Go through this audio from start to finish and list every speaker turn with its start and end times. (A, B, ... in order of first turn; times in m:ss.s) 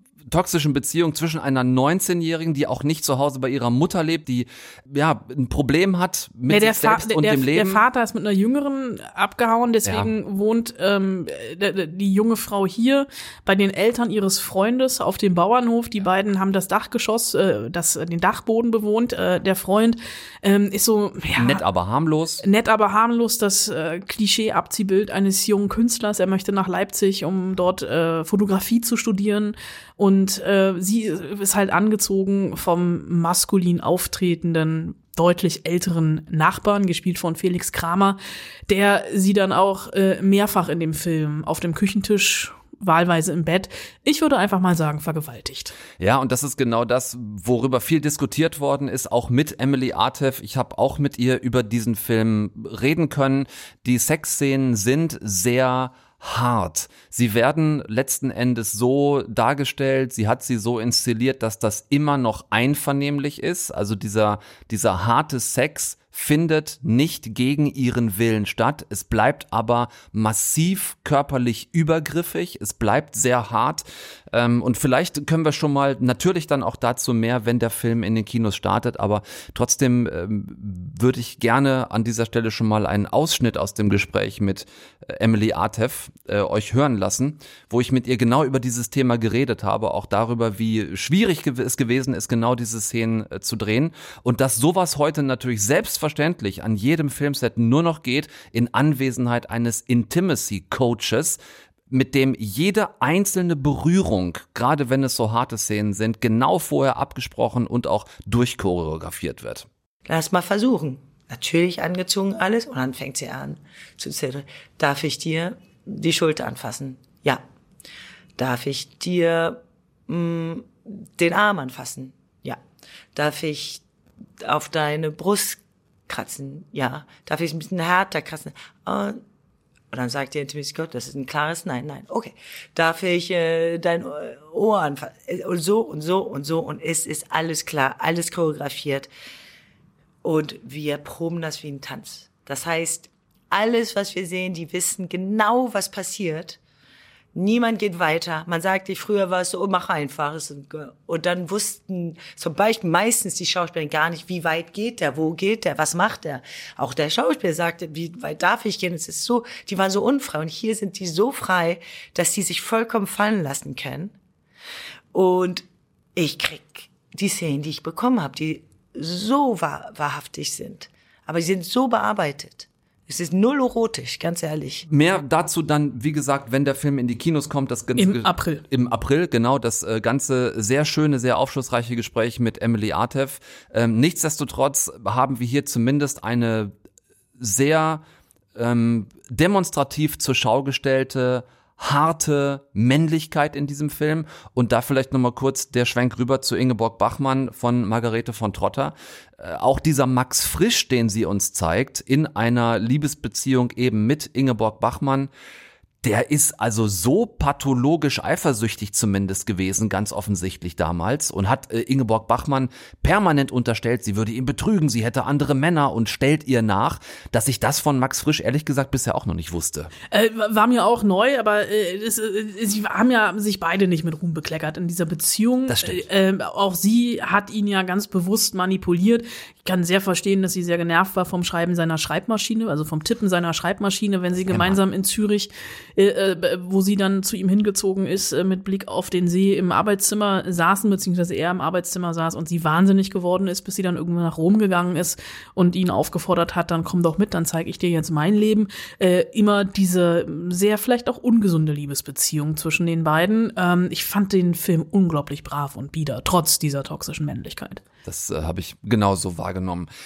0:00.3-0:07.8 A
0:06.5-0:21.6 B
0:09.8-0:10.1 A
0:21.4-0:22.4 A
0:22.4-0:38.2 B
0:38.7-0:45.8 B
0:46.0-1:49.7 A
1:50.1-1:57.4 C
1:58.4-2:02.6 C
2:03.1-2:03.8 C
2:04.4-2:09.2 C
2:09.9-2:19.1 C
2:20.2-2:26.6 C
2:27.4-2:44.2 C
2:45.1-2:54.9 C
2:54.9-3:06.7 A
2:58.0-2:58.6 B
3:07.4-3:08.0 A
3:08.6-3:25.3 A
3:26.0-3:39.9 A
3:40.1-4:17.8 B
3:45.7-3:46.0 A
3:54.5-3:54.8 A
4:18.0-4:19.9 A